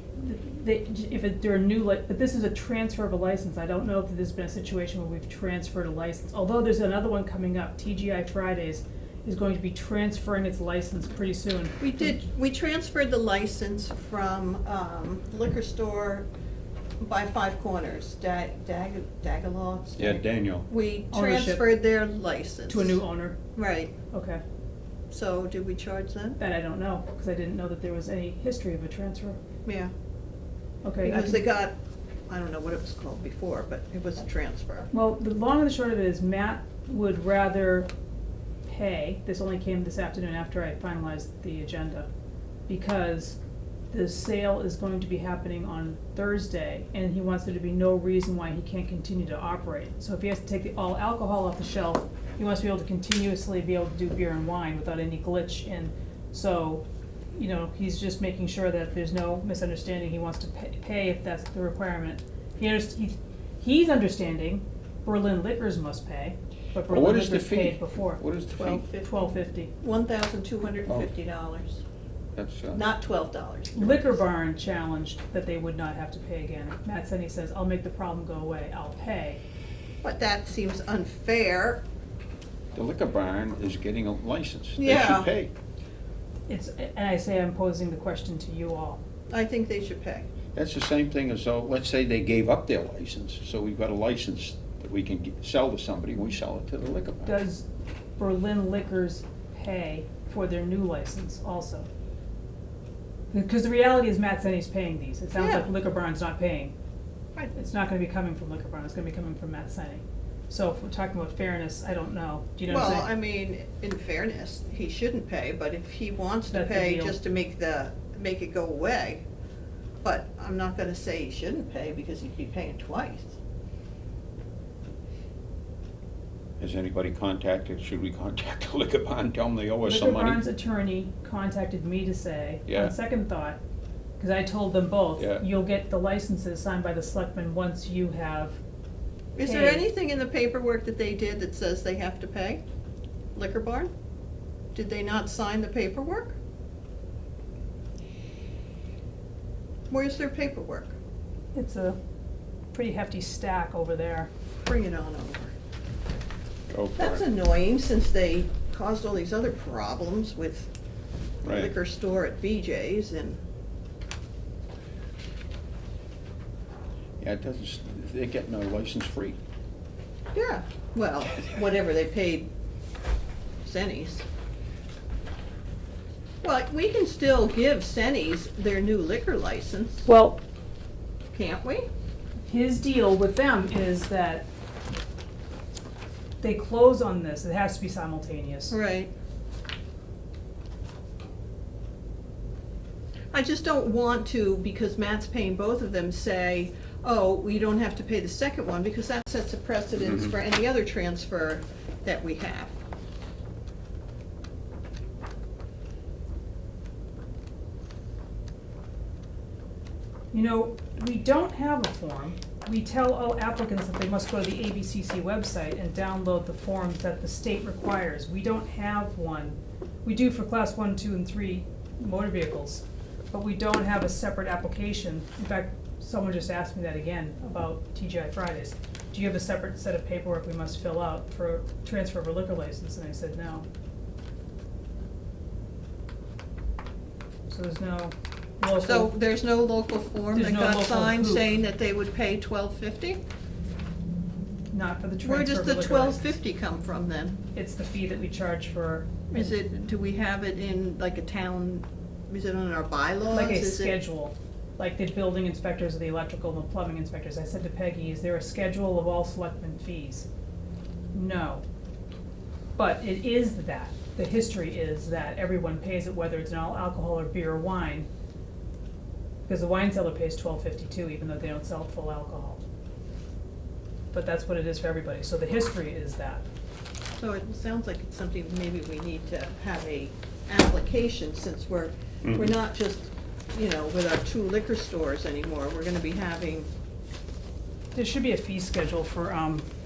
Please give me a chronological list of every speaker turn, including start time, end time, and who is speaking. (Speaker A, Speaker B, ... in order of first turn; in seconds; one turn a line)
Speaker A: 0.1-12.1
Speaker B: 11.8-16.3
Speaker B: 17.0-23.0
Speaker C: 20.0-20.7
Speaker A: 21.1-21.7
Speaker A: 22.7-23.4
Speaker B: 23.6-23.9
Speaker A: 24.1-24.4
Speaker B: 25.1-26.4
Speaker A: 26.4-29.4
Speaker B: 29.6-29.9
Speaker A: 30.8-31.4
Speaker B: 31.1-31.7
Speaker B: 32.3-34.9
Speaker A: 34.9-37.9
Speaker A: 38.7-42.1
Speaker A: 42.7-43.4
Speaker A: 43.9-56.8
Speaker A: 57.4-68.2
Speaker C: 66.9-68.8
Speaker B: 68.5-69.1
Speaker A: 69.0-69.7
Speaker B: 69.8-71.8
Speaker C: 72.3-72.8
Speaker B: 72.7-74.1
Speaker A: 73.8-79.4
Speaker B: 80.0-81.8
Speaker C: 82.8-85.5
Speaker B: 84.8-85.3
Speaker A: 86.5-89.0
Speaker B: 89.3-90.3
Speaker C: 90.5-97.3
Speaker A: 97.2-97.7
Speaker A: 98.2-101.9
Speaker A: 103.3-106.8
Speaker B: 105.3-105.7
Speaker A: 107.5-113.1
Speaker B: 112.7-119.2
Speaker A: 116.5-117.2
Speaker B: 120.0-123.3
Speaker C: 126.6-130.4
Speaker A: 129.8-133.6
Speaker C: 132.7-132.9
Speaker A: 134.2-138.6
Speaker C: 135.2-135.4
Speaker B: 139.4-142.6
Speaker A: 139.4-139.9
Speaker B: 143.3-143.9
Speaker B: 144.8-146.3
Speaker B: 149.9-150.9
Speaker A: 151.5-152.0
Speaker A: 152.7-154.3
Speaker B: 154.6-155.5
Speaker C: 156.7-157.2
Speaker B: 157.0-160.7
Speaker C: 161.4-161.7
Speaker B: 161.4-163.4
Speaker C: 167.2-169.4
Speaker B: 170.3-172.5
Speaker B: 173.6-174.2
Speaker B: 176.4-180.1
Speaker A: 180.1-180.4
Speaker B: 181.3-181.9
Speaker A: 182.4-184.5
Speaker A: 186.4-188.8
Speaker B: 188.7-189.1
Speaker B: 193.3-202.7
Speaker A: 210.3-233.7
Speaker A: 237.5-239.1
Speaker B: 238.8-243.2
Speaker A: 240.3-241.5
Speaker A: 244.7-246.3
Speaker B: 245.2-247.4
Speaker A: 247.6-249.6
Speaker B: 249.3-254.0
Speaker A: 253.3-260.3
Speaker A: 261.1-261.6
Speaker A: 262.8-268.1
Speaker A: 269.5-272.6
Speaker A: 274.1-276.4
Speaker B: 277.2-286.7
Speaker C: 282.2-282.5
Speaker A: 287.9-289.7